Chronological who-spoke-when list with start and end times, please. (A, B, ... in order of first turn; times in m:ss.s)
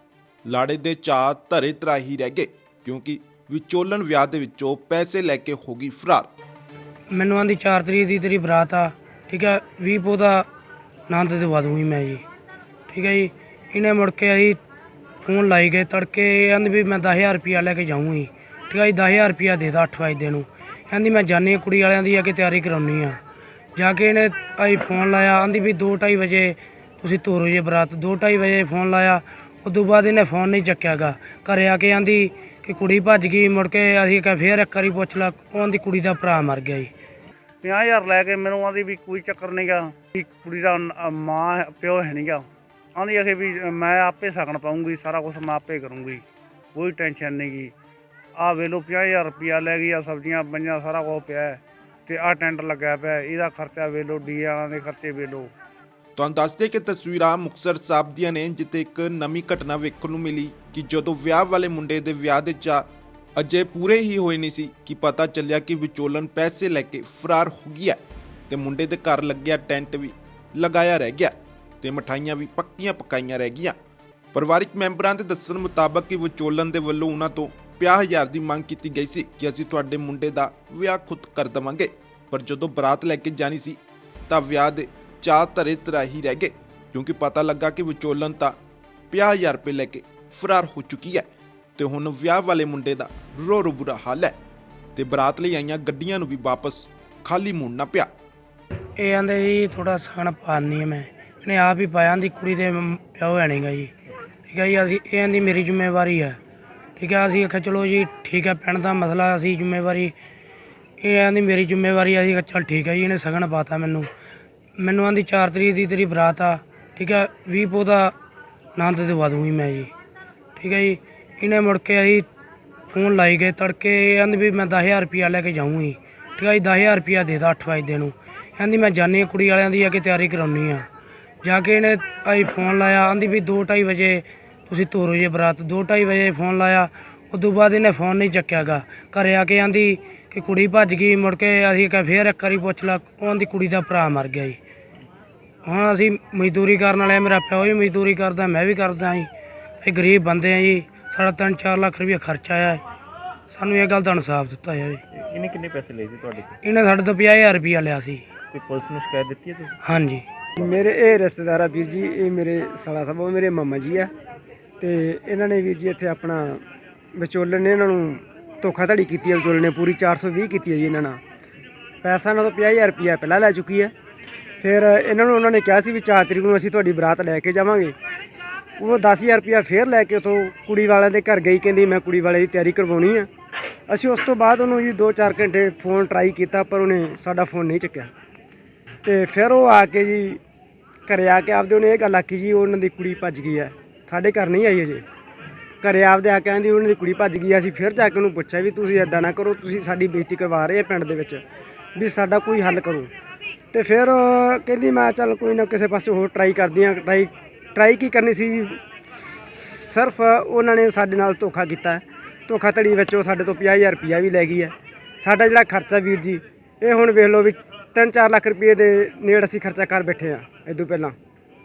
0:00.4-0:06.3 A
0:07.1-0:10.5 B
0:11.1-0:12.2 B
0:12.9-0:14.6 B
0:15.2-0:23.2 B
0:23.8-0:36.9 B
0:37.6-0:47.7 C
0:48.4-0:55.5 C
0:56.2-1:13.8 A
1:14.3-1:28.6 A
1:29.1-1:34.4 A
1:34.9-1:38.1 A
1:39.0-1:43.9 B
1:44.5-1:46.4 B
1:47.0-1:50.1 B
1:51.0-1:54.1 B
1:54.8-1:58.1 B
1:58.8-1:59.9 B
2:00.6-2:02.2 B
2:02.9-2:10.9 B
2:11.4-2:24.6 B
2:25.6-2:29.3 B
2:29.8-2:32.8 B
2:33.5-2:35.0 B
2:35.1-2:36.6 D
2:36.6-2:38.2 B
2:38.5-2:39.8 D
2:39.8-2:40.2 B
2:40.6-2:44.1 E
2:44.8-2:46.6 E
2:47.1-2:51.2 E
2:52.0-2:53.9 E
2:54.6-2:57.9 E
2:58.8-3:03.3 E
3:03.9-3:08.1 E
3:09.0-3:10.4 E
3:11.1-3:15.0 E
3:15.8-3:21.4 E
3:21.9-3:23.1 E
3:23.7-3:41.1 E